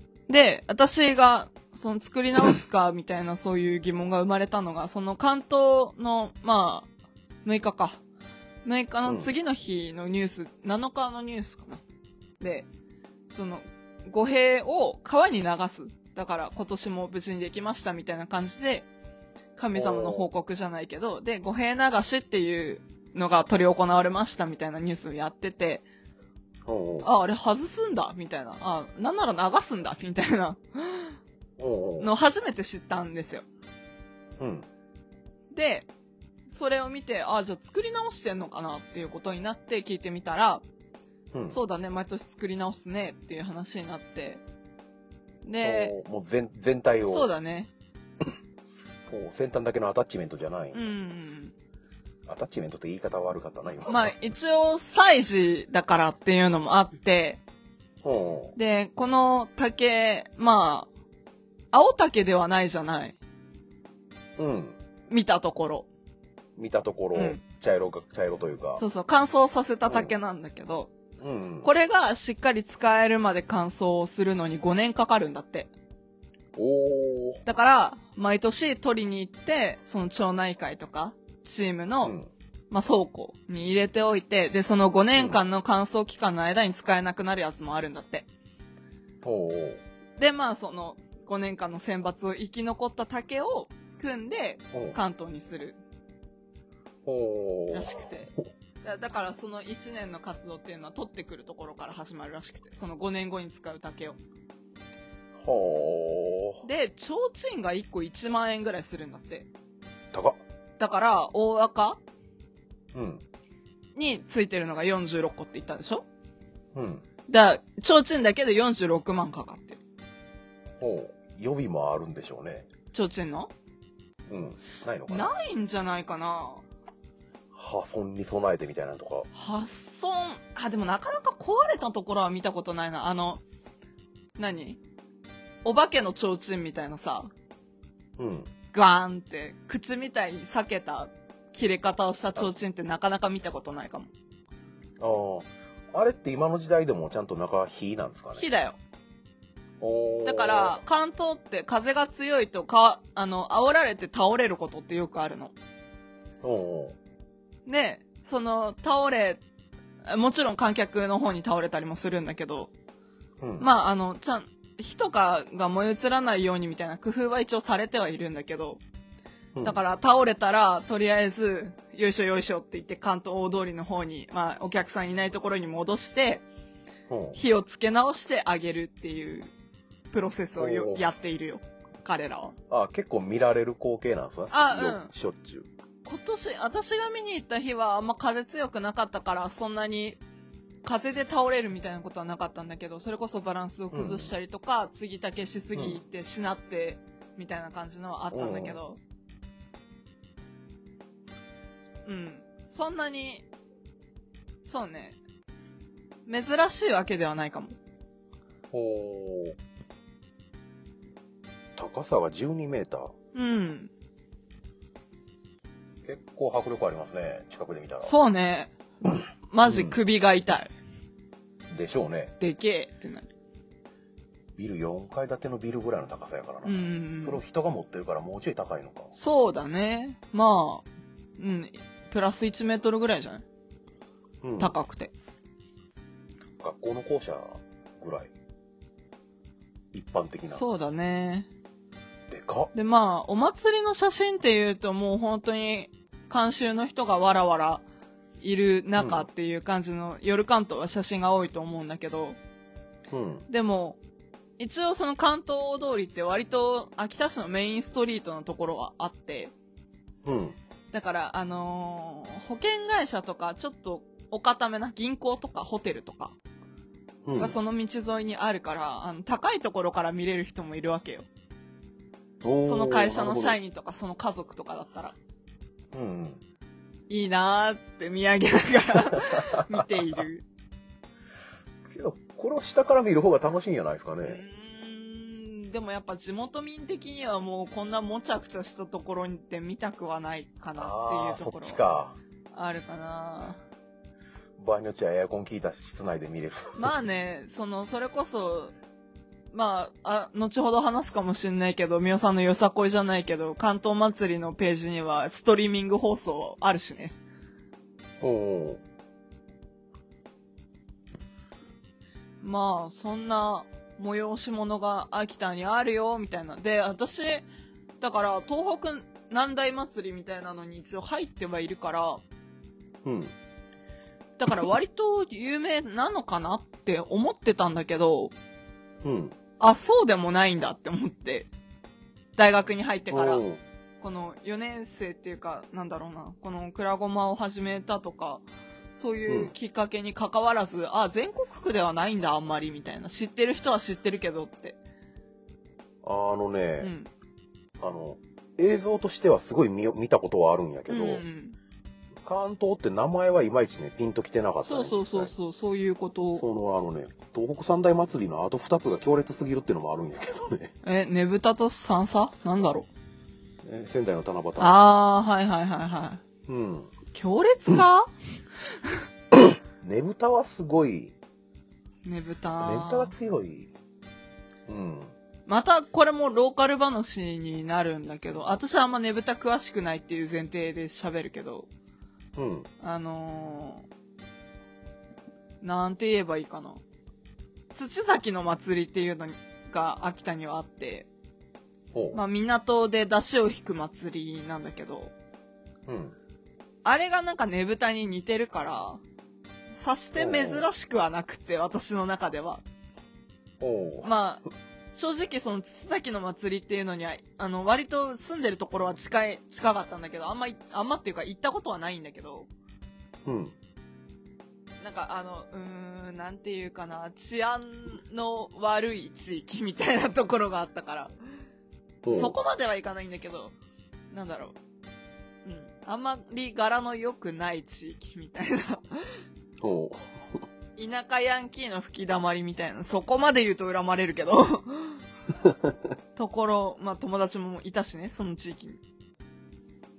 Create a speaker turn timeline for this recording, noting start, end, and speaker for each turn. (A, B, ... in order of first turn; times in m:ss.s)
0:00.3-0:06.9 A
0:07.4-0:08.0 A
0:08.6-0:11.8 A
0:12.4-0:12.7 A
0:13.3-0:18.9 A
0:19.6-0:25.8 A
0:19.8-0:20.3 B
0:26.7-0:27.1 B
0:27.0-0:31.2 A
0:31.6-0:32.1 B
0:32.0-0:33.4 A
0:34.4-0:34.7 B
0:35.5-0:35.9 A
0:36.5-0:40.6 A
0:41.3-0:41.6 B
0:41.5-0:44.4 A
0:45.4-0:46.0 A
0:45.6-0:47.3 B
0:47.1-0:47.7 A
0:49.1-0:50.8 B
0:50.7-0:51.6 A
0:52.3-0:54.1 B
0:53.9-0:57.4 A
0:58.0-0:58.6 B
0:58.6-1:00.9 A
1:01.7-1:03.2 A
1:04.4-1:04.8 B
1:05.1-1:05.9 A
1:06.6-1:08.8 B
1:07.1-1:07.4 A
1:08.8-1:10.9 A
1:09.9-1:10.1 B
1:11.2-1:11.7 B
1:11.6-1:15.7 A
1:16.6-1:17.4 B
1:17.4-1:22.2 A
1:22.0-1:22.3 B
1:22.7-1:28.3 A
1:29.2-1:29.8 B
1:30.2-1:35.8 A
1:34.7-1:35.0 B
1:37.0-1:38.4 B
1:37.7-1:38.3 A
1:38.8-1:44.2 A
1:45.4-1:46.6 B
1:46.6-1:49.5 A
1:50.1-1:50.4 B
1:50.8-1:52.0 A
1:52.9-1:53.2 B
1:54.0-1:56.0 A
1:56.7-1:57.0 B
1:57.3-1:59.8 A
2:00.8-2:02.7 B
2:02.9-2:03.5 A
2:04.3-2:05.3 B
2:05.1-2:06.6 A
2:07.5-2:09.3 B
2:09.3-2:13.4 A
2:14.4-2:14.8 A
2:15.6-2:17.3 A
2:18.2-2:18.5 B
2:18.7-2:24.1 A
2:25.0-2:28.4 B
2:28.4-2:28.8 A
2:29.8-2:30.8 B
2:30.2-2:35.6 A
2:36.4-2:37.0 B
2:37.7-2:39.4 A
2:40.1-2:42.7 A
2:43.4-2:43.7 B
2:43.6-2:48.8 A
2:49.6-2:49.8 B
2:49.6-2:56.4 A
2:57.1-2:57.4 B
2:57.3-2:59.5 A
3:00.1-3:02.6 A
3:00.6-3:01.1 B
3:02.7-3:05.7 B
3:04.5-3:05.1 A
3:06.0-3:10.2 A
3:10.8-3:19.0 A
3:13.9-3:14.3 B
3:15.8-3:16.0 B
3:18.3-3:18.8 B
3:22.0-3:23.4 A
3:24.6-3:25.2 A
3:26.3-3:27.8 A
3:28.7-3:29.6 B
3:31.8-3:33.1 B
3:33.3-3:33.9 A
3:36.0-3:38.1 B
3:38.0-3:38.7 A
3:39.5-3:40.7 A
3:39.7-3:40.0 B
3:41.7-3:42.3 B
3:42.4-3:43.3 A
3:44.6-3:49.1 B
3:46.6-3:47.4 A
3:49.1-3:50.8 A
3:51.4-3:53.4 A
3:54.4-3:54.8 B
3:54.6-3:55.1 A
3:56.6-3:58.3 B
3:59.9-4:00.6 B
4:00.5-4:01.5 A
4:02.3-4:02.7 B
4:02.7-4:07.8 A
4:08.4-4:12.4 A
4:09.0-4:09.3 B
4:13.1-4:13.5 B
4:13.5-4:14.0 A
4:14.6-4:19.5 A
4:20.2-4:20.6 B
4:20.9-4:26.4 A
4:27.2-4:27.6 B
4:27.4-4:31.3 A
4:32.4-4:33.6 B
4:32.6-4:35.2 A
4:35.9-4:36.4 B
4:37.1-4:40.4 A
4:39.2-4:40.0 B
4:41.9-4:44.4 B
4:44.2-4:51.8 A
4:50.8-4:52.2 B
4:52.5-4:53.6 A
4:54.6-4:56.9 B
4:56.8-4:58.7 A
4:59.5-5:07.2 A
5:08.2-5:08.8 B
5:12.4-5:17.5 A
5:18.0-5:22.2 A
5:23.0-5:23.3 B
5:24.4-5:28.3 A
5:29.0-5:29.4 B
5:29.6-5:31.5 A
5:32.4-5:33.4 A
5:33.1-5:33.6 B
5:34.0-5:44.8 A
5:39.3-5:39.5 B
5:46.0-5:46.9 B
5:46.8-5:47.1 A
5:47.8-5:51.2 B
5:50.9-5:51.6 A
5:52.2-5:55.3 B
5:54.6-5:56.4 A
5:56.4-6:00.7 B
6:00.8-6:02.9 A
6:03.6-6:04.8 B
6:04.6-6:06.2 A
6:06.5-6:06.9 B
6:07.1-6:08.1 A
6:09.3-6:11.2 B
6:12.0-6:13.1 A
6:12.6-6:13.7 B
6:14.7-6:15.1 B
6:15.5-6:21.7 A
6:22.4-6:22.7 B
6:22.8-6:23.9 A
6:25.6-6:26.8 A
6:27.7-6:31.1 A
6:31.9-6:32.2 B
6:32.1-6:35.1 A
6:35.9-6:36.2 B
6:36.8-6:39.0 A
6:39.7-6:42.6 A
6:40.2-6:40.7 B
6:43.6-6:44.1 B
6:44.0-6:44.4 A
6:44.9-6:52.5 A
6:53.2-6:53.6 B
6:54.8-7:01.1 A
7:02.0-7:02.4 B
7:02.1-7:03.5 A
7:04.1-7:04.6 A
7:05.4-7:09.2 A
7:09.6-7:10.4 B
7:10.8-7:15.0 A
7:16.2-7:18.8 A